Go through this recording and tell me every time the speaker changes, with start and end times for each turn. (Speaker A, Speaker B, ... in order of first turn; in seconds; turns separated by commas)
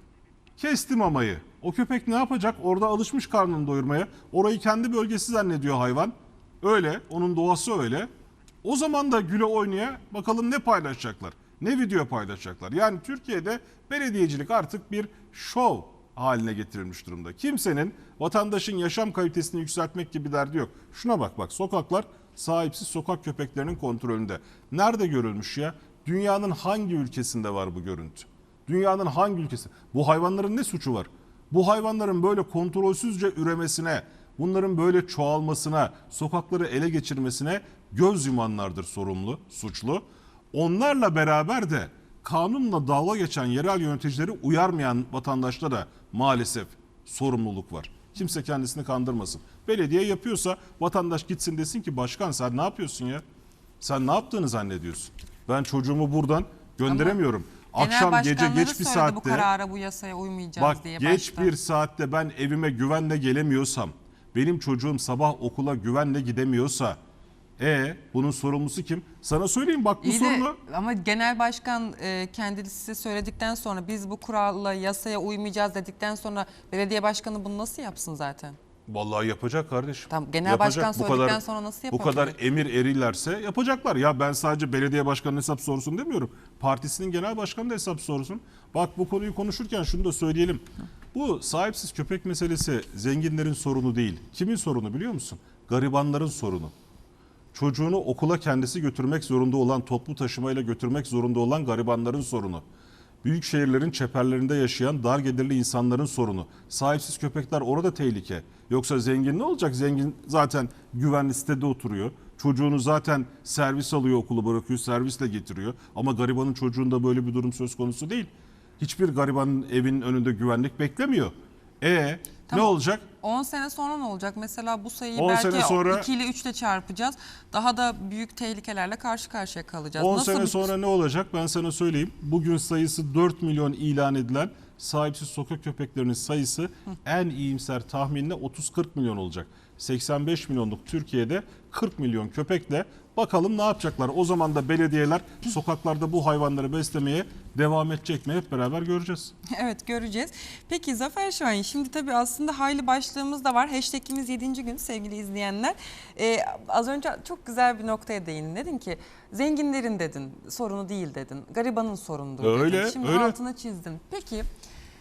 Speaker A: 0.6-8.1, Speaker A: 8.6-53.2, Speaker A: 53.8-59.5, Speaker B: 56.9-57.2, Speaker B: 57.8-61.5, Speaker A: 60.6-67.0, Speaker A: 67.6-70.6, Speaker B: 70.0-78.6, Speaker A: 78.9-96.7, Speaker B: 80.1-82.4, Speaker A: 97.5-102.6, Speaker A: 103.2-123.0, Speaker B: 122.5-130.7, Speaker A: 125.2-126.1, Speaker A: 130.0-149.3, Speaker B: 149.5-164.5, Speaker A: 162.4-163.4